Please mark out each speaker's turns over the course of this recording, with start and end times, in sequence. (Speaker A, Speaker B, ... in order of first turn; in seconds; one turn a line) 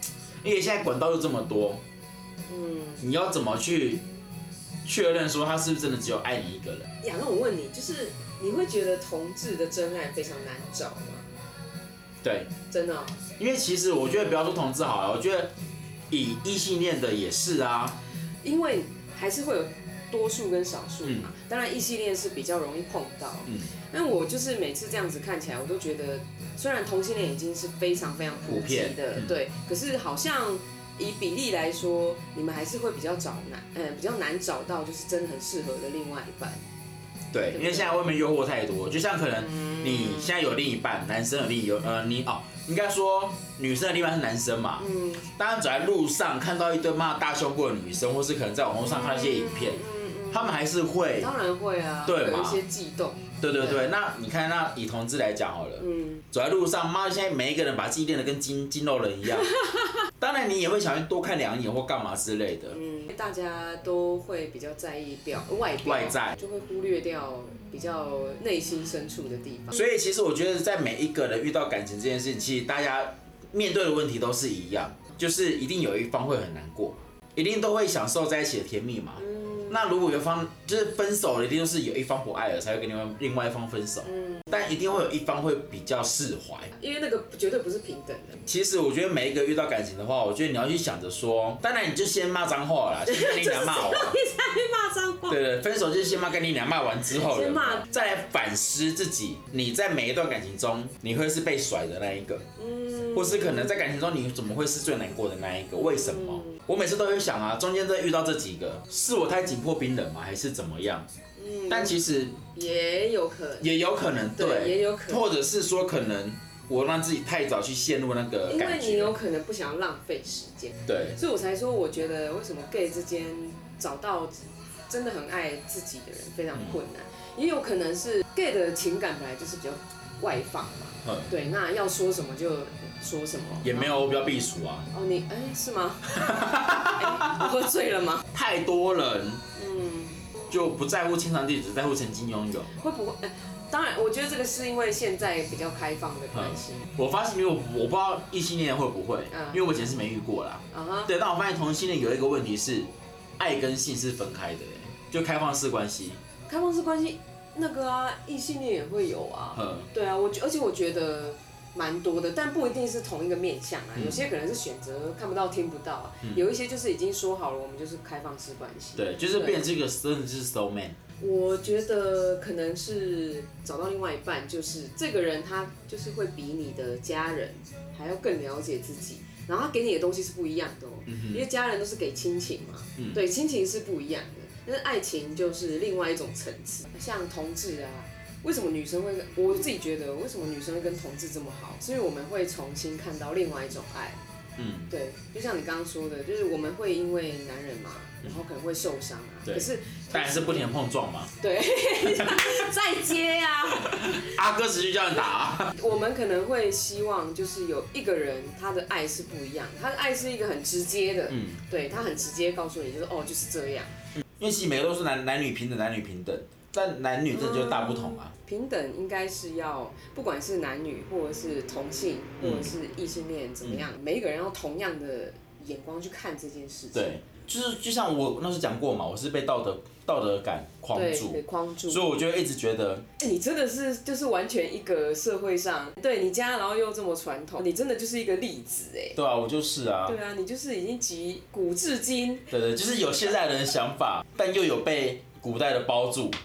Speaker A: 0.4-1.8
Speaker B: 2.5-3.0
Speaker A: 3.0-4.0
Speaker A: 4.8-6.9
Speaker B: 7.0-11.3
Speaker A: 12.2-12.5
Speaker B: 12.7-13.2
Speaker A: 13.4-15.5
Speaker A: 16.1-18.0
Speaker B: 18.4-36.6
Speaker A: 21.0-21.3
Speaker A: 28.5-29.4
Speaker A: 37.3-51.3
Speaker B: 37.5-38.0
Speaker B: 39.5-39.9
Speaker B: 44.8-45.3
Speaker B: 48.8-50.5
Speaker B: 51.2-53.8
Speaker A: 52.0-52.6
Speaker A: 53.4-59.5
Speaker B: 55.8-56.2
Speaker A: 60.2-62.8
Speaker B: 62.7-69.9
Speaker A: 65.8-66.4
Speaker A: 69.7-86.7
Speaker B: 79.2-79.7
Speaker B: 84.1-84.4
Speaker B: 86.8-88.4
Speaker A: 88.5-94.2
Speaker B: 93.1-95.4
Speaker A: 95.3-102.5
Speaker B: 97.1-97.9
Speaker B: 102.6-103.9
Speaker A: 103.1-111.1
Speaker B: 105.9-106.6
Speaker B: 111.4-112.0
Speaker A: 111.7-112.4
Speaker B: 112.5-113.7
Speaker A: 113.6-119.2
Speaker B: 114.3-115.2
Speaker B: 118.5-133.9
Speaker A: 120.9-121.2
Speaker A: 126.5-126.8
Speaker A: 133.6-134.9
Speaker B: 134.9-138.3
Speaker A: 136.2-137.5
Speaker A: 138.3-139.4
Speaker B: 139.6-140.2
Speaker A: 140.5-142.7
Speaker B: 142.8-146.9
Speaker A: 146.3-156.2
Speaker B: 149.3-149.6
Speaker B: 150.7-151.1
Speaker B: 156.5-169.7
Speaker A: 159.6-159.9
Speaker A: 164.0-164.2
Speaker A: 169.0-171.0
Speaker B: 171.2-194.2
Speaker A: 181.1-181.4
Speaker A: 194.6-194.9
Speaker B: 194.9-200.7
Speaker A: 199.5-201.3
Speaker B: 201.4-204.4
Speaker A: 202.0-202.6
Speaker A: 203.8-205.8
Speaker B: 205.7-213.9
Speaker A: 211.3-211.6
Speaker A: 214.4-218.3
Speaker B: 217.3-227.2
Speaker A: 222.4-222.7
Speaker A: 226.9-233.1
Speaker B: 230.9-232.1
Speaker B: 233.2-239.2
Speaker A: 239.2-240.2
Speaker B: 240.1-242.5
Speaker A: 242.5-246.4